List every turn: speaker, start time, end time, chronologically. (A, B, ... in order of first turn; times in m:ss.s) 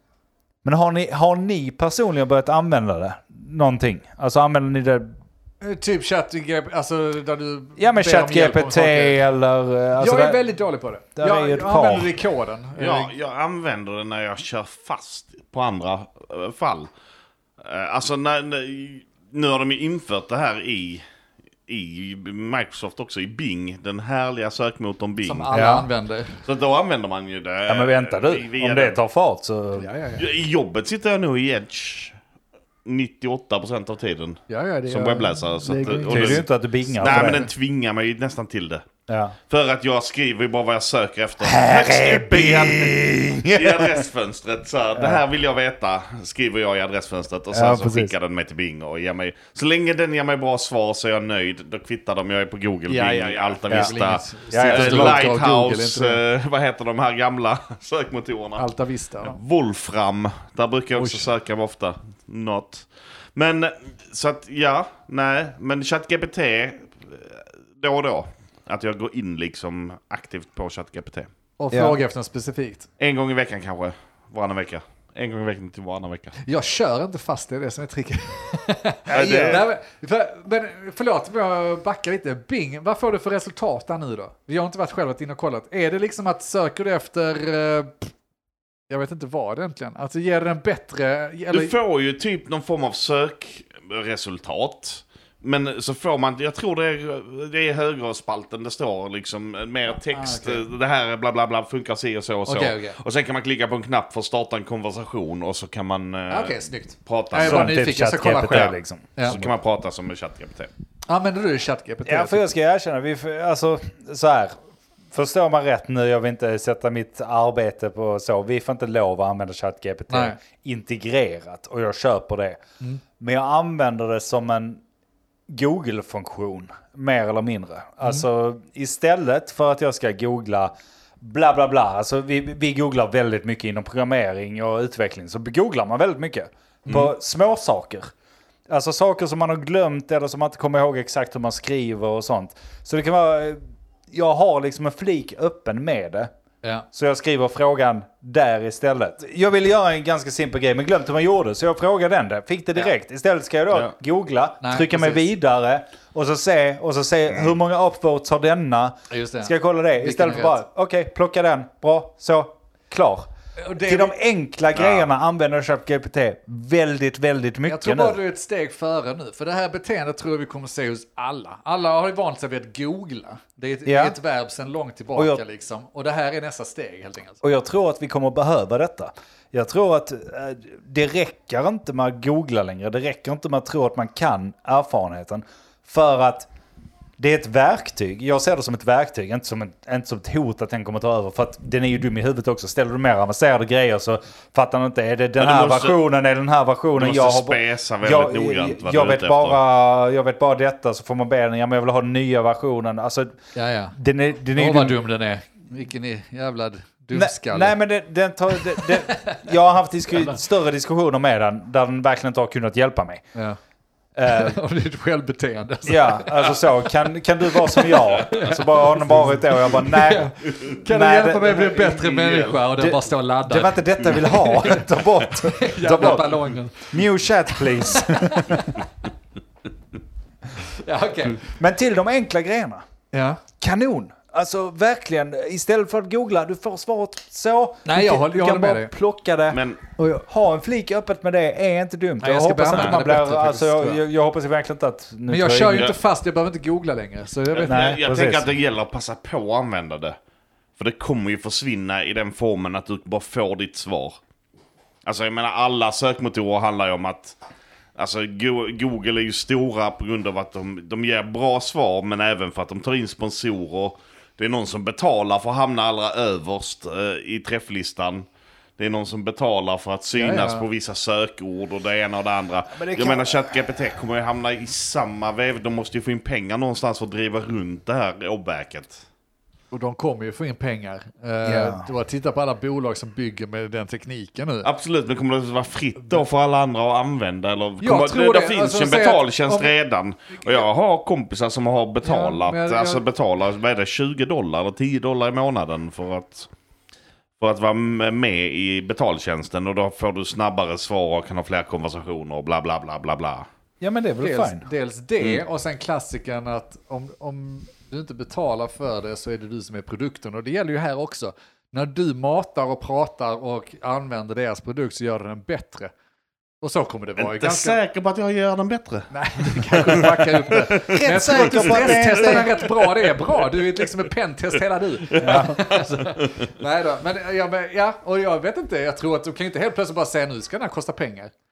0:00.6-0:05.1 A
0:05.6-0:09.2 B
0:07.8-0:10.4 A
0:10.0-0:13.1 B
0:11.2-0:12.1 A
0:12.8-0:16.9 C
0:17.6-0:21.0 C
0:21.7-0:25.5 C
0:25.2-0:26.4 B
0:25.5-0:25.9 A
0:26.4-0:29.0 C
0:27.7-0:29.9 A
0:29.8-0:30.2 B
0:30.2-0:32.2 C
0:32.8-0:38.8 C
0:34.5-0:36.4 B
0:36.1-0:37.5 A
0:39.1-0:39.3 A
0:39.5-0:58.7 C
0:41.4-0:44.0 A
0:45.0-0:45.2 A
0:47.5-0:48.1 A
0:52.9-0:56.2 B
0:54.5-0:55.3 A
0:58.6-0:59.4 B
0:59.2-1:11.3 C
1:01.0-1:01.3 B
1:11.6-1:12.9 B
1:11.7-1:12.0 A
1:13.0-1:16.4 C
1:16.5-1:28.1 B
1:19.1-1:19.6 A
1:19.1-1:19.6 C
1:28.9-1:31.7 B
1:31.5-1:47.8 C
1:40.1-1:40.6 B
1:42.5-1:43.0 B
1:46.3-1:49.4 B
1:47.4-1:49.5 A
1:49.2-1:50.7 C
1:51.1-1:52.5 B
1:52.0-1:54.5 A
1:55.1-2:02.6 A
2:00.1-2:00.4 B
2:03.2-2:04.8 A
2:05.5-2:18.1 A
2:18.7-2:23.6 A
2:24.1-2:26.3 A
2:26.9-2:43.3 A
2:34.6-2:35.3 B
2:39.1-2:40.6 B
2:43.6-2:44.1 B
2:43.8-2:48.2 A
2:44.7-2:45.1 C
2:47.6-2:57.4 B
2:53.8-2:54.1 A
2:57.4-3:06.5 A
3:07.2-3:23.4 A
3:15.4-3:16.0 C
3:17.0-3:19.6 C
3:23.5-3:24.0 B
3:23.9-3:25.0 A
3:24.5-3:27.8 B
3:27.1-3:33.2 A
3:28.5-3:29.4 B
3:34.2-3:34.6 A
3:34.2-3:36.9 B
3:35.9-3:40.3 A
3:37.4-3:48.8 B
3:40.8-3:41.6 A
3:41.5-3:42.7 C
3:42.8-3:48.7 A
3:50.6-3:51.5 B
3:51.6-3:52.8 A
3:53.1-3:53.4 B
3:53.6-3:59.6 A
3:57.8-3:58.9 B
3:59.5-3:59.8 C
4:00.0-4:00.2 B
4:00.1-4:05.9 A
4:02.2-4:04.0 B
4:05.3-4:08.0 B
4:07.5-4:10.2 C
4:07.7-4:08.5 A
4:10.8-4:14.2 C
4:15.0-4:17.4 C
4:18.0-4:28.2 C
4:28.8-4:39.0 C
4:30.1-4:30.6 B
4:32.7-4:33.6 A
4:39.7-4:44.7 B
4:41.4-4:41.9 A
4:44.6-4:56.5 C
4:47.8-4:49.7 B
4:52.0-4:53.0 B
4:57.4-5:03.5 C
5:03.8-5:04.7 A
5:04.2-5:15.9 B
5:16.6-5:17.8 B
5:17.2-5:23.8 C
5:19.1-5:31.3 B
5:20.8-5:22.5 A
5:25.1-5:26.3 C
5:25.2-5:25.6 A